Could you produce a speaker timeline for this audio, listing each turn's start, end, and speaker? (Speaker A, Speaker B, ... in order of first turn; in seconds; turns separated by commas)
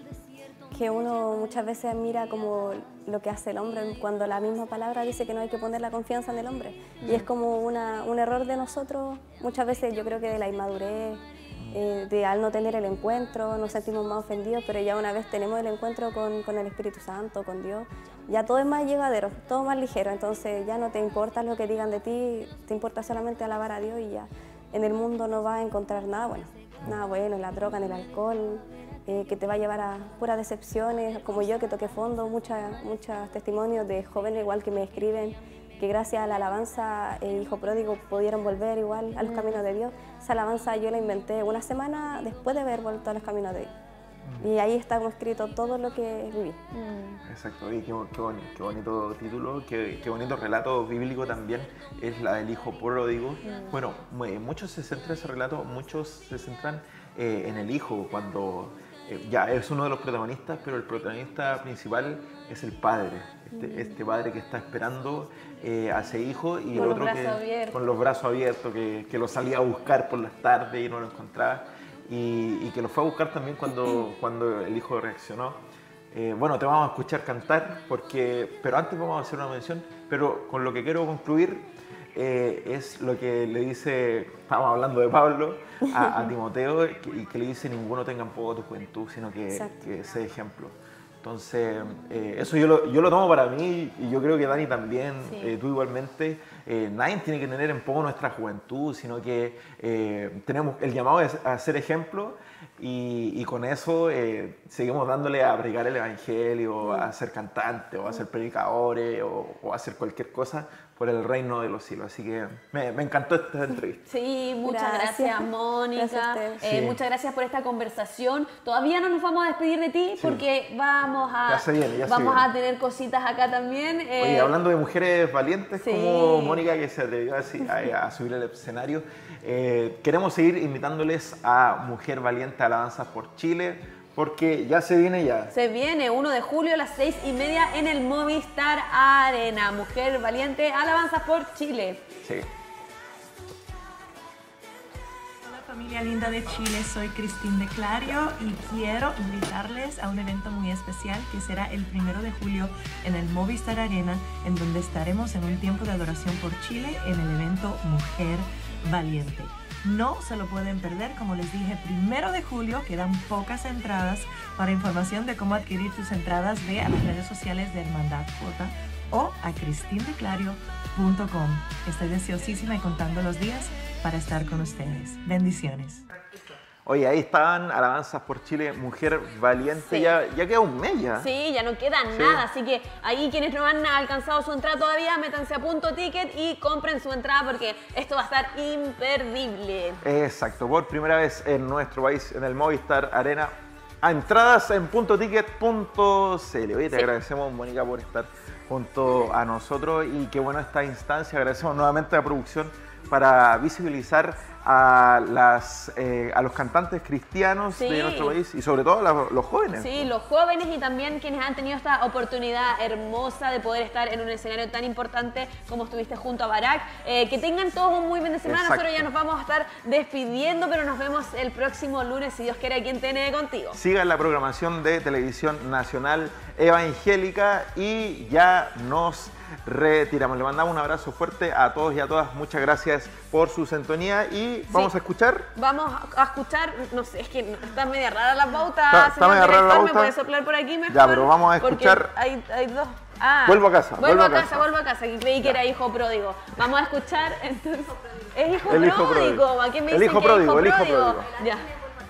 Speaker A: 0.7-43.7, Speaker B: 39.2-39.6, Speaker C: 44.2-44.5, Speaker A: 44.4-46.6, Speaker B: 46.7-47.2, Speaker C: 47.2-75.6, Speaker B: 53.4-53.8, Speaker B: 63.5-63.9, Speaker B: 66.7-67.8, Speaker C: 76.1-114.0, Speaker A: 89.5-89.8, Speaker B: 95.2-95.5, Speaker B: 114.0-124.5, Speaker A: 114.6-116.6, Speaker C: 116.6-117.0, Speaker C: 120.2-120.4, Speaker C: 121.5-122.5, Speaker C: 124.2-135.5, Speaker B: 125.8-126.6, Speaker B: 135.5-142.1, Speaker D: 145.4-176.0, Speaker C: 176.8-181.3, Speaker B: 179.8-180.1, Speaker B: 181.2-190.0, Speaker C: 182.1-182.4, Speaker C: 190.0-210.1, Speaker B: 207.7-208.3, Speaker B: 209.7-223.8, Speaker C: 218.4-219.1, Speaker C: 223.7-235.5, Speaker B: 235.6-251.7, Speaker C: 238.9-240.1, Speaker C: 240.9-242.1, Speaker C: 243.4-244.7, Speaker C: 248.5-251.3